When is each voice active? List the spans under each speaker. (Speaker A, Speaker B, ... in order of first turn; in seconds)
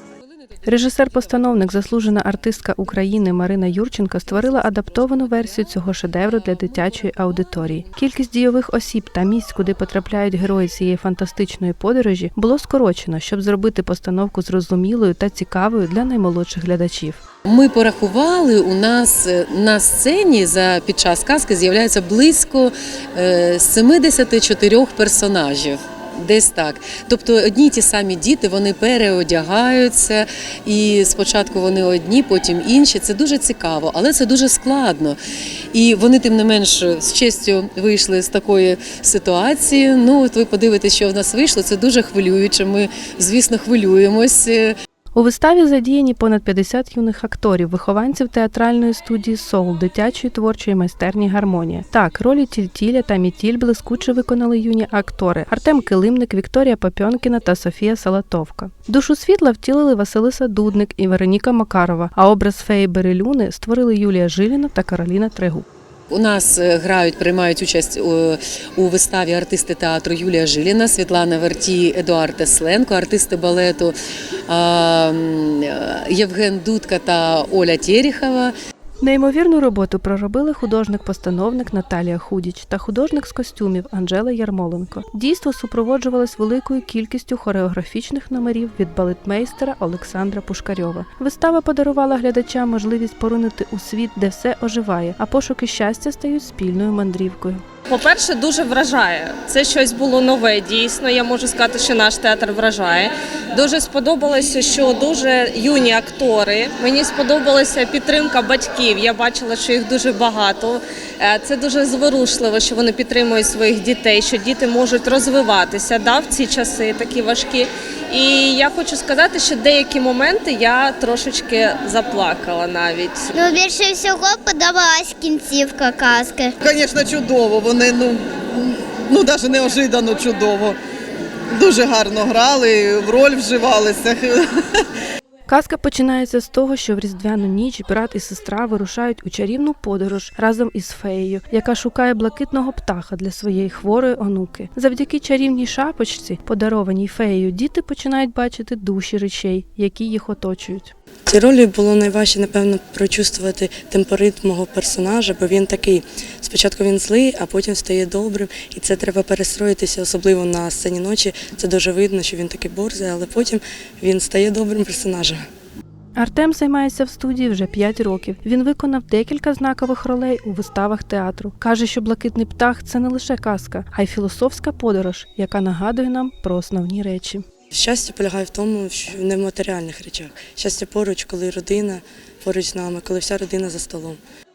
Speaker A: 0.7-17.2, 45.1-65.7, 79.0-97.6, 135.5-150.9, 166.2-177.4
Speaker B: 6.3-6.6, 17.5-35.2, 35.7-44.7, 66.1-73.9, 74.5-78.5
Speaker C: 97.9-123.3
Speaker D: 123.3-126.5
Speaker E: 126.6-130.8, 131.5-134.8
Speaker F: 151.3-165.4, 177.7-184.2